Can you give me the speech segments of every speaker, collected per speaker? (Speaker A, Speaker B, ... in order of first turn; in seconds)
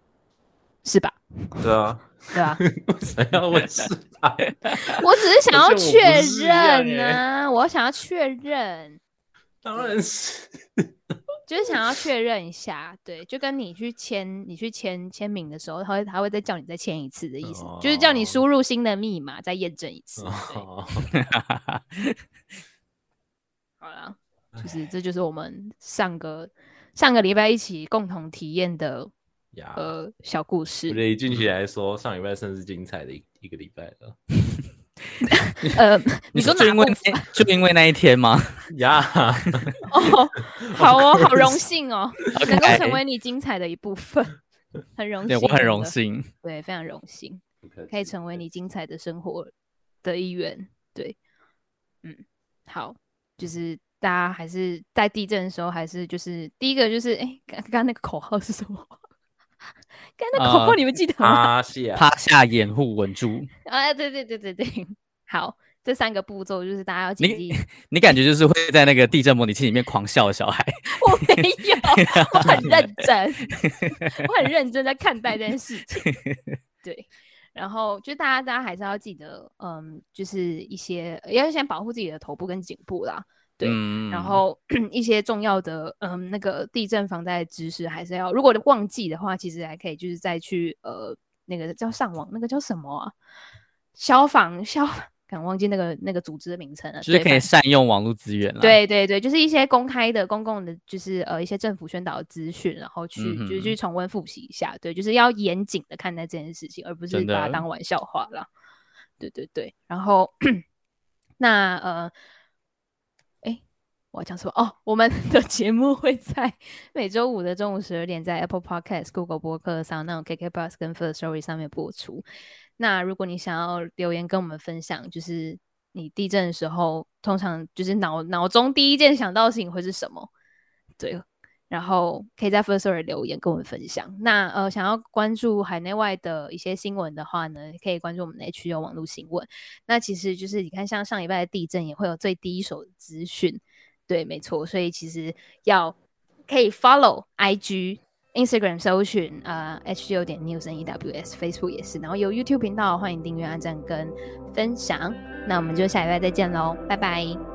Speaker A: 0.8-1.6, 2.3-2.6, 4.8-9.0, 11.5-20.6, 23.8-29.1, 29.7-31.0, 35.2-37.4, 39.8-44.4, 45.0-49.5, 50.0-51.1, 52.0-58.9, 60.2-61.5, 63.6-67.6, 70.9-76.1, 76.8-93.1, 93.9-97.5, 98.6-108.5, 109.2-110.6, 111.4-112.1, 114.1-122.2, 122.8-130.3, 131.0-145.9, 146.5-157.4
Speaker B: 1.6-4.5, 5.5-7.2, 9.6-10.9, 17.4-18.4, 20.2-21.1, 29.5-29.9, 30.9-34.1, 38.7-39.7, 40.6-41.6, 47.6-48.4, 61.2-62.0
Speaker C: 21.1-22.2, 36.3-38.7, 42.3-43.0, 45.3-46.3, 60.3-60.8, 62.0-63.5, 67.2-72.7, 76.0-76.5, 83.6-84.4, 97.0-98.8, 103.2-103.8, 107.1-107.6